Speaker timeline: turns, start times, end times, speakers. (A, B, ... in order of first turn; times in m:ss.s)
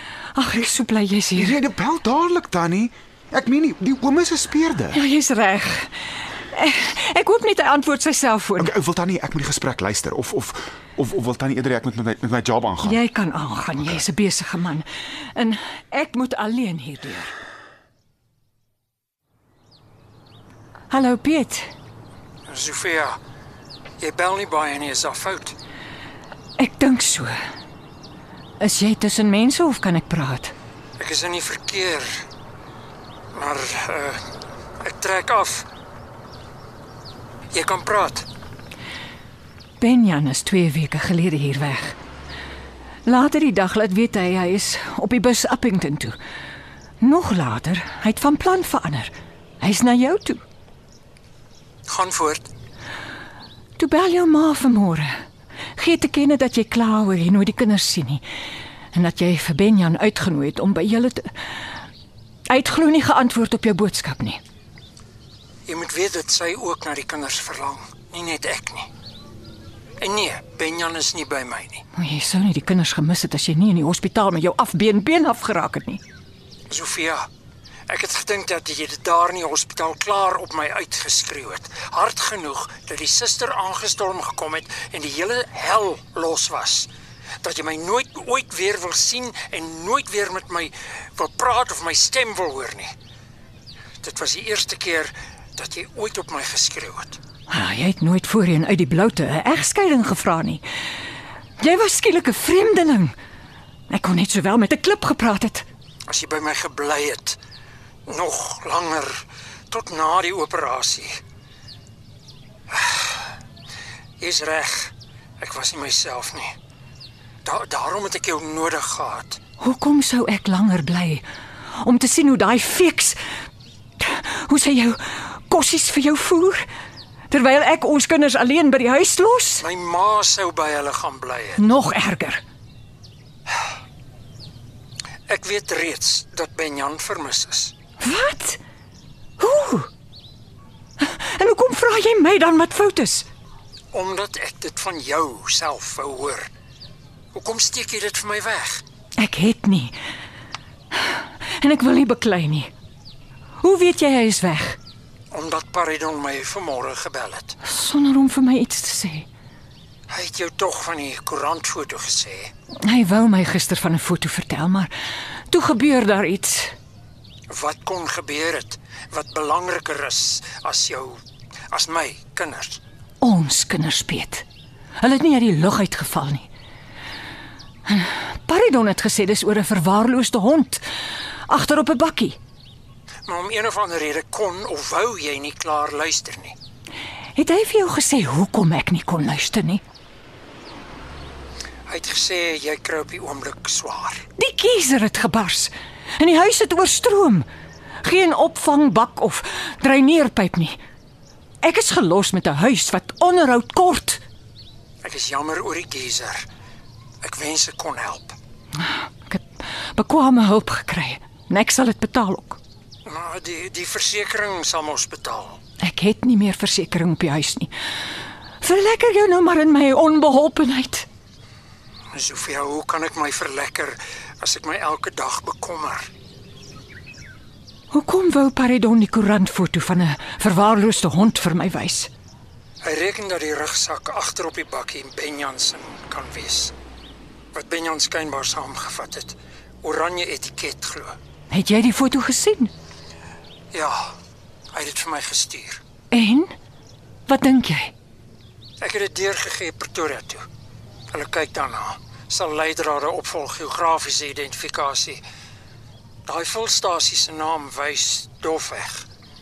0:00.3-0:01.6 A
0:01.4-0:05.0 B
0:04.9-0:08.7 A
0:08.6-0:13.0 B
0:12.8-0:17.3 A
0:20.9-0:21.7 A
0:22.5-0:23.2 C
0:24.0-0:25.6 C
0:26.6-0:27.4 A
0:28.6-0:30.5 A
0:31.0-0:32.2 C
0:33.3-0:34.2 C
0:34.8-0:35.7 C
0:37.5-0:38.3 C
0:39.8-0:42.0 A
0:43.1-0:46.2 A
0:47.0-0:50.4 A
0:51.9-0:52.5 C
0:53.8-0:55.1 A
0:55.8-0:58.2 A
0:58.9-1:01.3 A
1:02.5-1:04.4 A
1:05.7-1:08.9 C
1:10.0-1:11.8 C
1:11.9-1:16.0 A
1:16.7-1:17.3 C
1:17.9-1:26.9 C
1:27.4-1:32.9 C
1:34.0-1:37.2 C
1:37.5-1:40.6 A
1:41.6-1:43.2 A
1:43.9-1:45.7 A
1:46.1-1:47.4 C
1:48.1-1:51.2 C
1:52.7-1:53.2 C
1:54.2-1:56.6 C
1:57.4-1:59.4 C
1:59.6-2:03.2 A
2:04.0-2:06.7 A
2:07.3-2:09.6 A
2:09.6-2:11.6 C
2:11.6-2:12.4 A
2:15.3-2:17.7 C
2:18.0-2:18.6 A
2:19.4-2:19.9 A
2:21.0-2:23.3 A
2:23.9-2:26.5 C
2:27.3-2:28.8 C
2:29.2-2:30.0 A
2:30.9-2:32.7 A
2:33.6-2:34.8 A
2:35.3-2:37.6 C
2:37.6-2:39.3 A
2:40.1-2:42.5 C
2:42.8-2:44.9 A
2:45.5-2:46.8 A
2:47.5-2:51.2 C
2:51.7-2:52.8 C
2:53.2-2:54.4 A
2:55.0-2:56.5 A
2:57.9-3:00.8 A
3:01.5-3:02.4 A
3:03.3-3:06.6 C
3:07.4-3:09.8 A
3:11.9-3:14.3 C
3:14.4-3:17.5 A
3:18.0-3:20.8 A
3:21.6-3:24.2 A
3:25.0-3:26.5 C
3:27.2-3:28.4 C
3:28.8-3:32.6 A
3:33.0-3:35.6 C
3:35.8-3:37.7 A
3:38.6-3:41.1 A
3:42.1-3:46.1 C
3:47.9-3:52.1 A
3:52.8-3:56.7 C
3:57.5-4:01.2 C
4:01.5-4:02.7 A
4:03.7-4:04.2 C
4:04.7-4:05.8 C
4:06.1-4:06.6 A
4:07.3-4:07.9 A
4:08.8-4:10.5 C
4:11.1-4:15.2 C
4:16.3-4:19.1 C